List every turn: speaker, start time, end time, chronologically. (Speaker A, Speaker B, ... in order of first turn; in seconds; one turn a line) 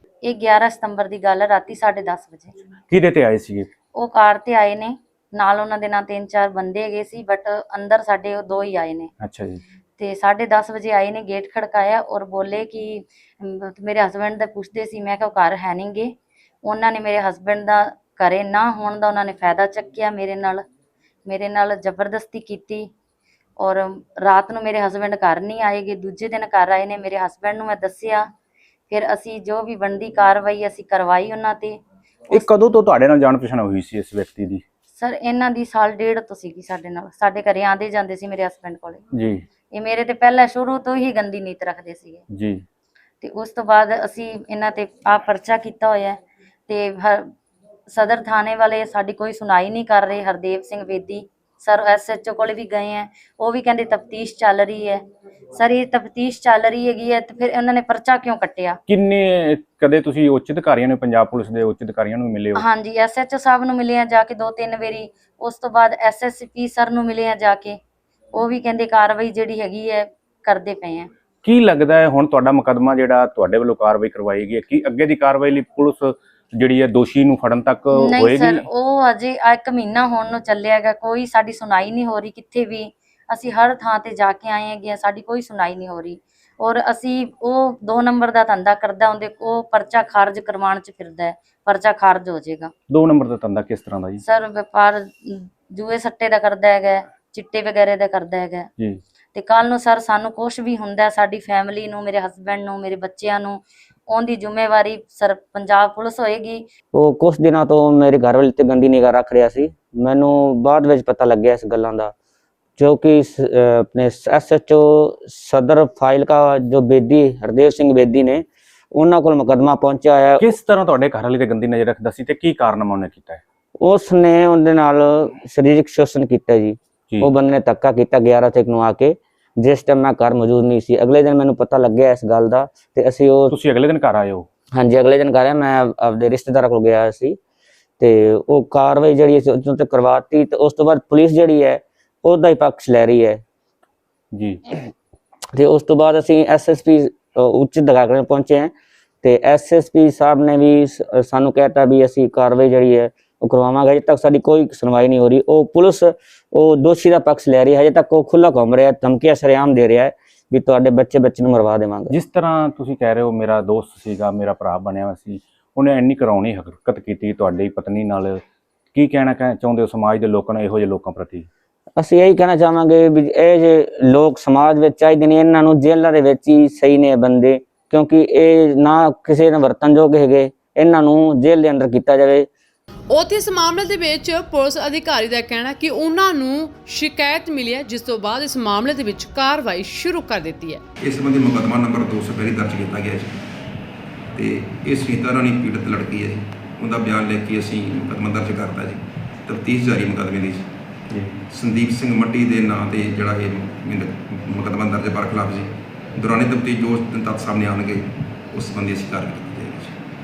Speaker A: 0.2-2.5
Speaker B: 2.9-3.7
Speaker A: 3.9-9.1
Speaker B: 9.2-9.6
Speaker A: 10.0-16.1
Speaker A: 16.6-20.6
Speaker A: 21.2-22.9
Speaker A: 23.6-28.2
Speaker A: 28.9-31.8
Speaker B: 32.3-34.6
Speaker A: 34.9-39.0
Speaker B: 39.1-39.4
Speaker A: 39.7-42.2
Speaker B: 42.3-42.6
Speaker A: 43.2-47.2
Speaker A: 47.9-55.0
Speaker A: 55.5-58.8
Speaker B: 58.9-62.6
Speaker A: 62.5-67.8
Speaker A: 68.3-71.1
Speaker B: 71.4-78.6
Speaker A: 78.0-92.7
Speaker B: 92.9-94.2
Speaker A: 94.2-98.7
Speaker A: 99.3-106.7
Speaker C: 106.9-112.1
Speaker C: 112.8-120.5
Speaker B: 120.4-123.4
Speaker C: 123.8-133.5
Speaker B: 133.5-134.5
Speaker C: 134.8-137.4
Speaker C: 138.0-143.4
Speaker B: 144.3-144.6
Speaker C: 145.5-148.7
Speaker C: 149.2-162.1
Speaker B: 162.1-168.4
Speaker B: 168.9-171.5
Speaker C: 172.0-182.5
Speaker D: 183.1-190.8
Speaker E: 191.0-193.4
Speaker E: 194.3-200.7
Speaker E: 201.5-210.0